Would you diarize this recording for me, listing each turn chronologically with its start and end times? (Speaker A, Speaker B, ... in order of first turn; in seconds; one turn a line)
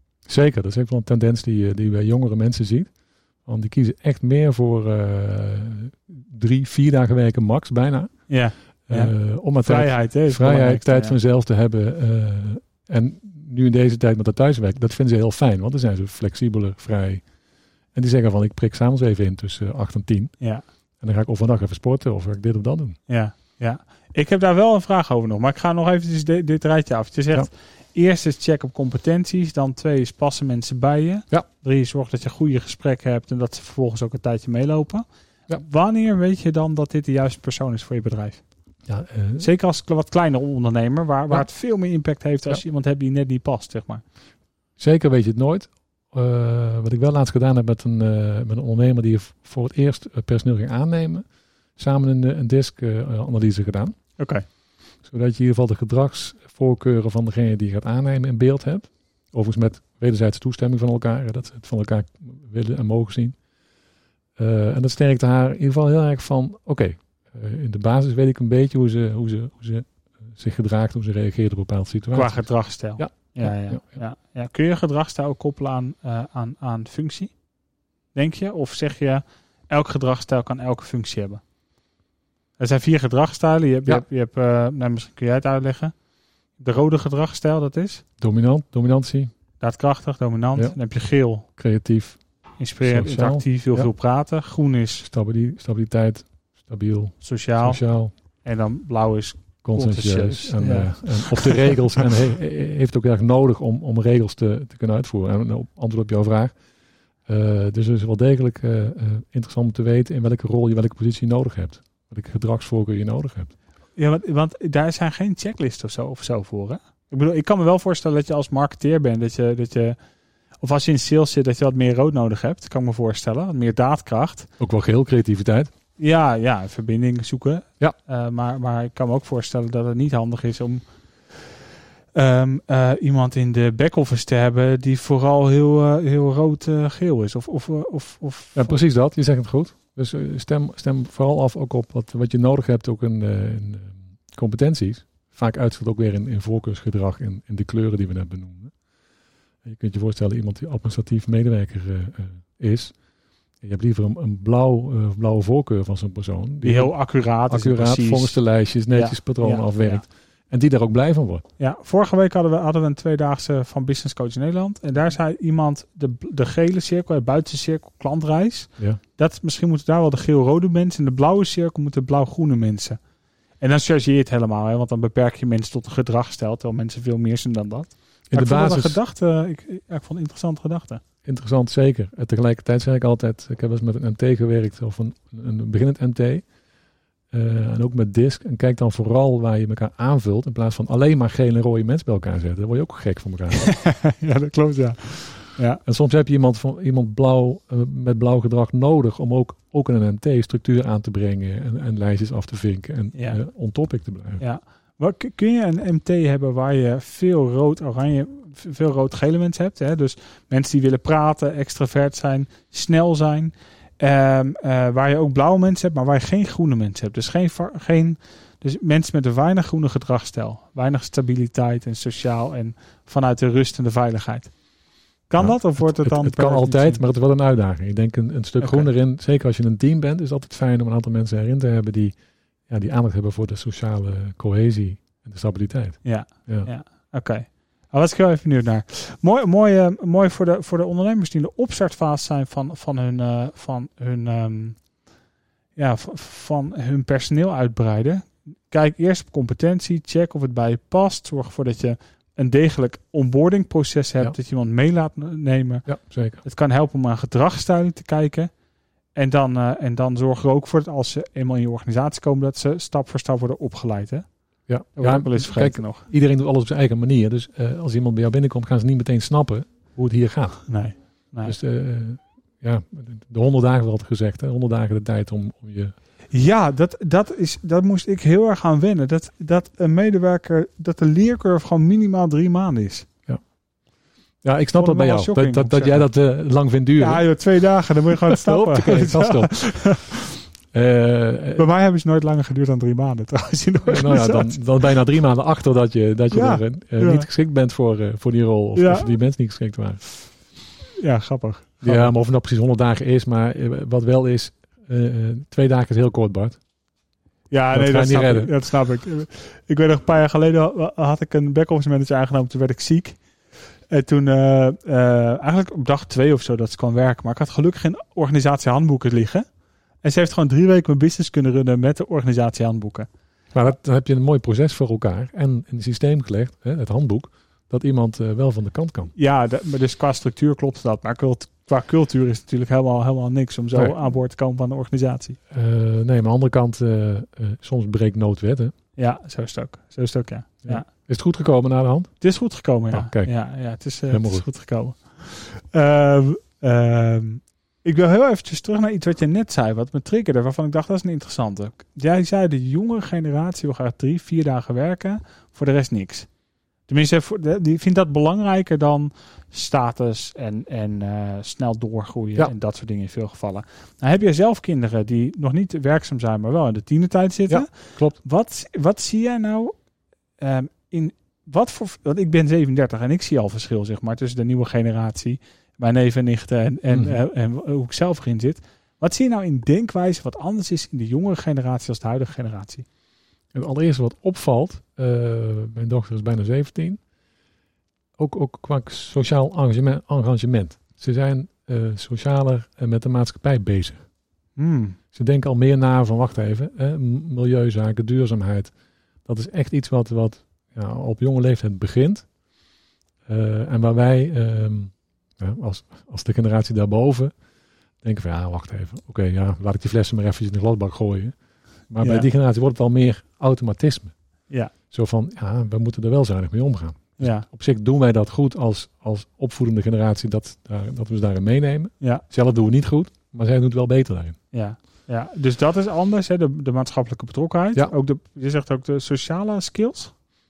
Speaker A: 0.3-2.9
Speaker A: 3.4-8.1
Speaker B: 8.3-11.2
Speaker A: 8.9-17.2
Speaker A: 17.9-20.3
Speaker A: 21.0-23.0
Speaker B: 23.1-38.4
Speaker A: 38.9-39.5
Speaker B: 39.4-44.0
Speaker A: 44.8-51.2
Speaker A: 51.8-54.0
Speaker B: 54.2-54.4
Speaker A: 55.0-63.4
Speaker A: 64.4-72.4
Speaker B: 72.1-77.3
Speaker A: 73.0-74.0
Speaker B: 78.1-81.4
Speaker B: 82.6-85.9
Speaker B: 86.6-88.0
Speaker A: 88.2-89.3
Speaker B: 89.6-91.5
Speaker A: 91.6-92.2
Speaker B: 92.6-95.1
Speaker A: 92.8-93.9
Speaker A: 95.1-98.1
Speaker B: 97.2-97.8
Speaker B: 98.4-101.8
Speaker A: 99.6-106.5
Speaker A: 107.2-113.5
Speaker B: 114.0-120.0
Speaker B: 120.6-124.5
Speaker A: 124.6-125.7
Speaker B: 126.0-131.4
Speaker B: 132.1-138.8
Speaker A: 138.5-148.7
Speaker A: 149.6-152.9
Speaker A: 153.6-156.9
Speaker B: 156.6-158.3
Speaker A: 157.5-161.4
Speaker B: 158.9-160.0
Speaker B: 161.6-173.0
Speaker B: 173.6-181.0
Speaker A: 178.3-179.0
Speaker A: 181.2-186.4
Speaker A: 187.3-193.7
Speaker B: 193.5-195.8
Speaker A: 195.8-204.4
Speaker B: 203.1-203.4
Speaker B: 204.4-224.5
Speaker B: 225.3-227.0
Speaker A: 225.4-232.1
Speaker B: 228.6-228.9
Speaker A: 232.7-236.7
Speaker B: 236.0-244.8
Speaker B: 245.8-255.9
Speaker A: 255.8-256.4
Speaker B: 256.4-258.5
Speaker B: 259.1-264.2
Speaker A: 264.7-270.7
Speaker B: 264.9-266.1
Speaker B: 270.7-271.6
Speaker A: 271.4-275.9
Speaker B: 276.3-283.1
Speaker A: 284.4-287.2
Speaker B: 284.7-286.1
Speaker B: 287.0-290.4
Speaker A: 288.2-289.9
Speaker A: 290.7-291.6
Speaker B: 291.6-294.8
Speaker A: 293.9-300.0
Speaker B: 296.3-297.3
Speaker B: 298.8-299.1
Speaker B: 301.0-302.1
Speaker A: 301.8-306.6
Speaker B: 307.5-313.2
Speaker A: 307.7-308.6
Speaker B: 313.9-319.4
Speaker B: 320.0-323.1
Speaker A: 323.5-329.1
Speaker B: 329.1-335.4
Speaker A: 335.5-338.7
Speaker B: 339.0-340.9
Speaker A: 340.6-342.1
Speaker B: 342.2-356.3
Speaker A: 342.9-343.3
Speaker A: 344.1-344.4
Speaker B: 356.9-369.7
Speaker A: 367.5-368.2
Speaker B: 370.4-382.9
Speaker A: 376.9-377.2
Speaker A: 383.5-387.0
Speaker A: 388.2-394.0
Speaker B: 394.6-395.0
Speaker A: 395.1-398.7
Speaker A: 399.2-402.2
Speaker A: 403.2-407.3
Speaker A: 408.0-411.3
Speaker A: 411.9-414.1
Speaker B: 412.0-412.3
Speaker A: 414.9-424.4
Speaker B: 417.2-417.5
Speaker B: 424.5-430.1